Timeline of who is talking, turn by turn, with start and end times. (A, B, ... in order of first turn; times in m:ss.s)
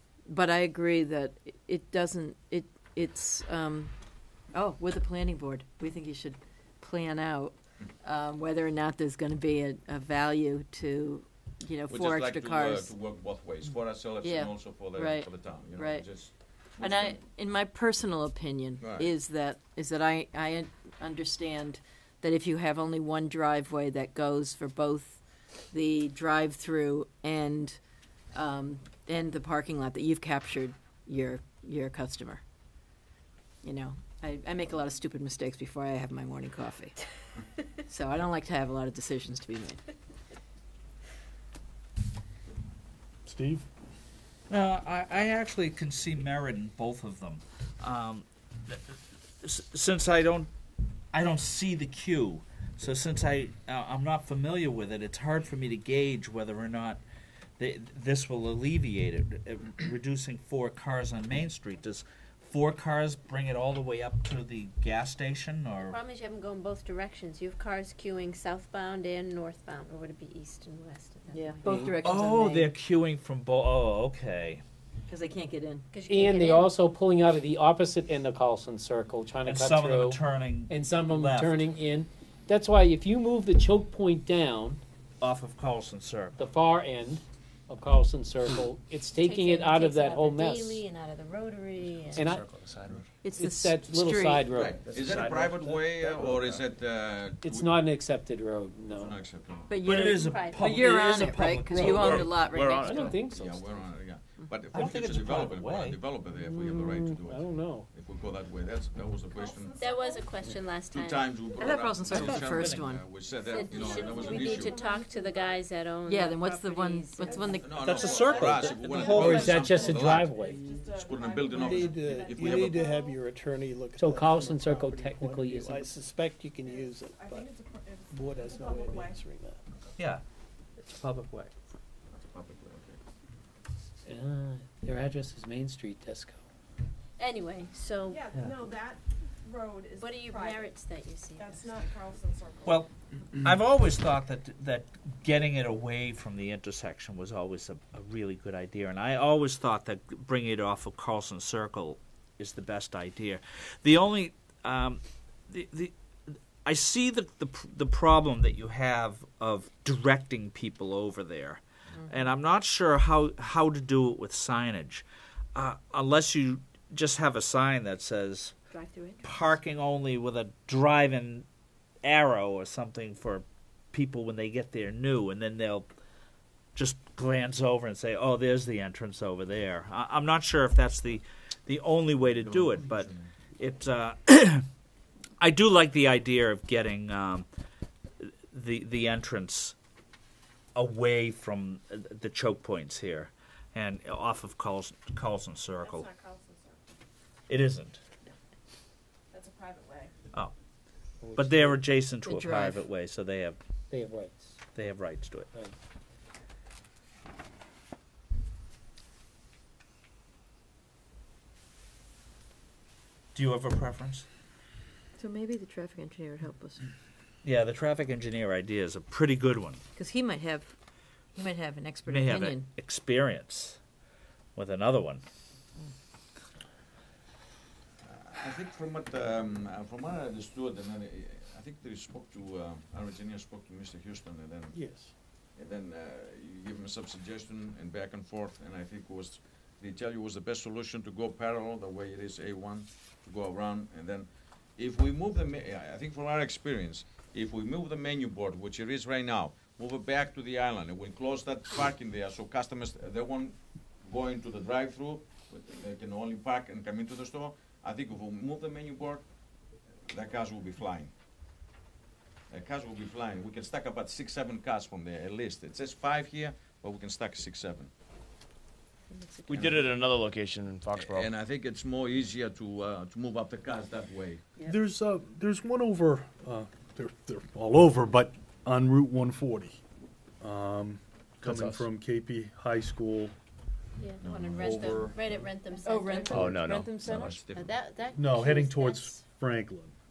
0:00.2-0:03.9 A
0:04.5-0:12.9 A
0:11.9-0:17.2 B
0:14.2-0:16.1 A
0:16.8-0:27.8 A
0:18.8-0:19.1 B
0:28.3-0:32.4 A
0:33.6-0:37.0 A
0:37.8-0:39.8 A
0:43.2-0:43.7 C
0:44.5-0:48.8 D
0:49.4-0:50.5 D
0:51.1-0:57.0 D
0:57.6-1:06.0 D
1:05.8-1:11.9 E
1:11.3-1:12.7 A
1:11.6-1:12.0 F
1:12.0-1:14.6 D
1:15.1-1:15.9 A
1:15.9-1:16.7 E
1:16.1-1:24.8 F
1:19.4-1:21.7 D
1:25.2-1:26.4 D
1:26.4-1:30.8 F
1:29.1-1:32.3 E
1:31.9-1:33.0 G
1:32.1-1:32.4 F
1:33.2-1:34.5 A
1:33.3-1:35.1 F
1:34.4-1:37.8 B
1:34.9-1:36.6 G
1:37.4-1:39.2 F
1:38.9-1:40.1 B
1:39.7-1:43.1 A
1:39.8-1:42.4 D
1:40.1-1:40.7 E
1:41.7-1:42.1 F
1:41.8-1:43.2 G
1:42.8-1:43.7 F
1:43.2-1:49.8 B
1:44.7-1:46.0 D
1:46.3-1:47.9 F
1:49.3-1:50.4 H
1:49.8-1:51.3 E
1:50.9-1:54.8 B
1:51.6-1:53.0 A
1:52.4-1:52.6 H
1:53.4-1:55.6 H
1:53.5-1:57.8 E
1:56.0-1:57.8 A
1:57.3-2:03.2 H
1:57.6-2:00.4 B
1:57.8-1:59.6 D
1:59.2-2:00.7 F
2:00.9-2:03.0 B
2:01.6-2:07.6 I
2:04.0-2:05.9 F
2:06.6-2:09.2 H
2:08.1-2:09.6 I
2:10.0-2:10.2 D
2:10.8-2:11.5 D
2:12.1-2:13.0 B
2:14.0-2:16.4 F
2:17.2-2:18.3 E
2:18.1-2:20.7 H
2:20.0-2:21.7 E
2:21.4-2:22.8 H
2:22.6-2:35.9 D
2:36.6-2:45.0 D
2:45.5-2:48.5 D
2:48.7-2:49.3 E
2:49.2-2:51.4 D
2:52.0-2:55.9 D
2:56.7-3:04.6 D
3:02.4-3:03.2 B
3:05.4-3:07.4 D
3:08.5-3:09.7 D
3:10.7-3:16.1 D
3:15.8-3:16.8 H
3:17.5-3:18.0 D
3:19.3-3:20.1 H
3:21.2-3:21.9 F
3:21.4-3:23.6 D
3:22.2-3:22.8 A
3:23.9-3:24.6 F
3:24.7-3:25.5 D
3:33.3-3:34.2 D
3:35.2-3:36.9 A
3:37.4-3:39.8 D
3:39.9-3:40.7 A
3:41.3-3:42.6 A
3:42.1-3:43.8 D
3:44.5-3:45.2 D
3:48.0-3:54.8 B
3:54.7-3:55.1 C
3:55.6-4:19.3 B
4:20.1-4:21.1 B
4:22.5-4:27.9 B
4:29.1-4:29.9 A
4:29.5-4:31.3 G
4:29.5-4:29.8 B
4:30.9-4:34.4 B
4:34.6-4:39.8 C
4:40.4-4:43.3 C
4:41.4-4:41.9 G
4:44.0-4:46.5 E
4:44.2-4:44.9 B
4:44.6-4:45.2 C
4:45.8-4:47.4 A
4:46.4-4:47.4 G
4:47.1-4:47.8 B
4:47.5-4:49.2 E
4:48.2-4:49.9 C